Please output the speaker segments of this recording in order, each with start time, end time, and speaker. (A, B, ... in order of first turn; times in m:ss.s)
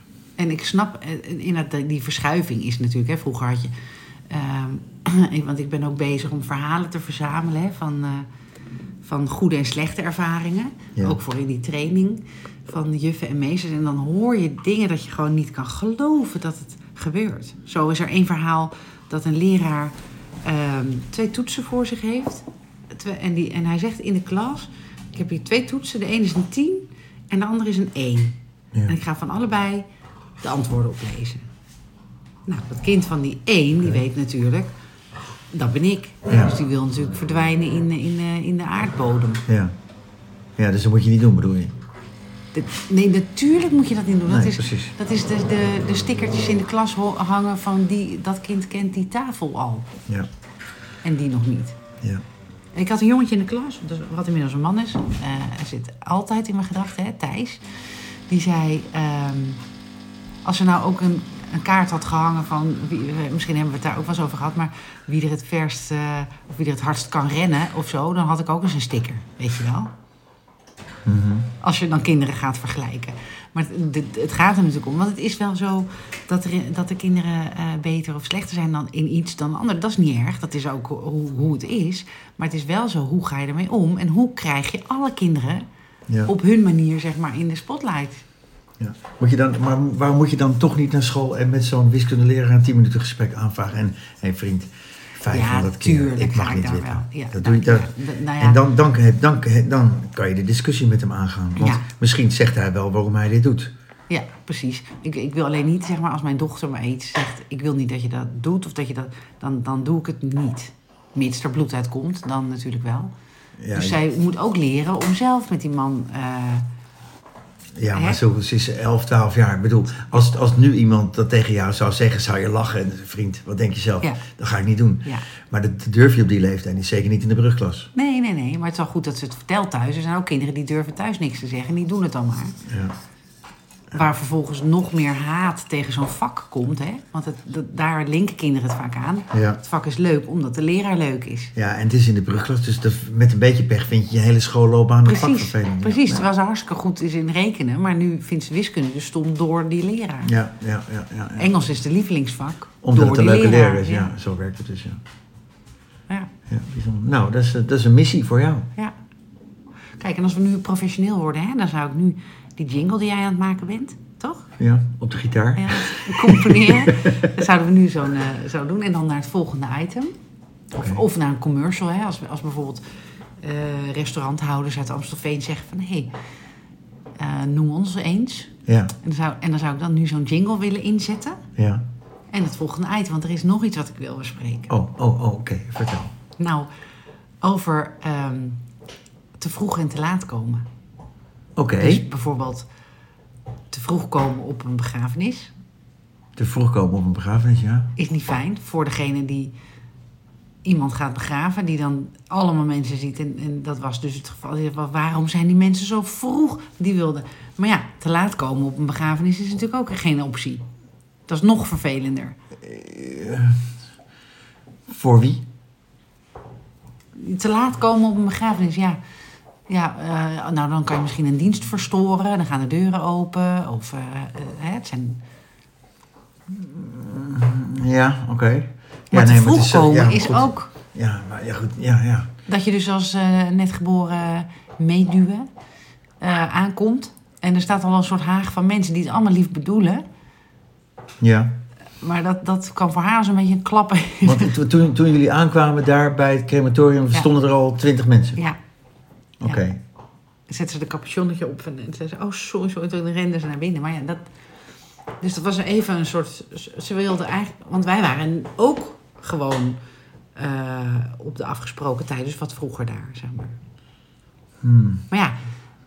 0:00.4-0:03.7 A
0:04.3-0:08.3 A
0:09.0-0:29.8 A
0:30.4-0:31.4 A
0:32.5-0:34.7 A
0:35.5-0:39.4 A
0:36.3-0:36.5 B
0:39.5-0:39.7 B
0:40.6-0:41.7 B
0:42.5-0:49.9 A
0:44.3-0:44.9 B
0:51.0-0:51.8 A
0:52.7-0:57.6 A
0:58.3-0:59.6 A
1:00.4-1:09.9 A
1:11.0-1:11.5 B
1:11.6-1:25.6 A
1:26.2-1:28.2 A
1:28.8-1:43.7 B
1:35.3-1:38.6 A
1:41.6-1:41.9 A
1:44.1-1:53.1 A
1:53.6-1:54.0 B
1:53.7-1:56.6 A
1:57.8-2:07.9 B
1:57.9-1:58.2 A
2:07.9-2:12.6 A
2:12.6-2:13.0 B
2:13.9-2:21.5 A
2:19.3-2:19.6 B
2:21.5-2:26.2 B
2:25.0-2:30.3 A
2:30.2-2:31.5 B
2:31.4-2:34.1 A
2:32.8-2:35.0 B
2:36.5-2:38.7 B
2:40.0-2:44.5 A
2:44.6-2:47.3 B
2:45.6-2:50.1 A
2:50.7-2:51.0 B
2:50.7-2:52.8 A
2:53.4-2:56.1 A
2:57.2-3:01.4 A
2:58.6-2:58.9 B
3:01.6-3:01.8 B
3:02.3-3:04.7 A
3:04.7-3:06.1 B
3:06.4-3:06.7 A
3:07.4-3:08.6 A
3:09.4-3:10.6 A
3:11.6-3:12.0 B
3:11.8-3:12.7 A
3:13.7-3:15.5 A
3:16.4-3:17.9 B
3:18.0-3:19.5 A
3:20.6-3:30.6 A
3:31.3-3:32.4 A
3:32.6-3:33.7 B
3:34.9-3:35.4 B
3:37.2-3:39.0 A
3:39.7-3:45.2 A
3:46.5-3:52.3 B
3:49.1-3:50.7 A
3:52.5-3:55.5 A
3:56.2-4:00.0 A
4:01.2-4:01.5 B
4:02.0-4:04.5 A
4:04.2-4:08.4 B
4:09.4-4:09.8 B
4:10.5-4:14.2 A
4:15.2-4:19.8 A
4:20.4-4:23.5 A
4:24.6-4:25.0 B
4:25.1-4:25.4 A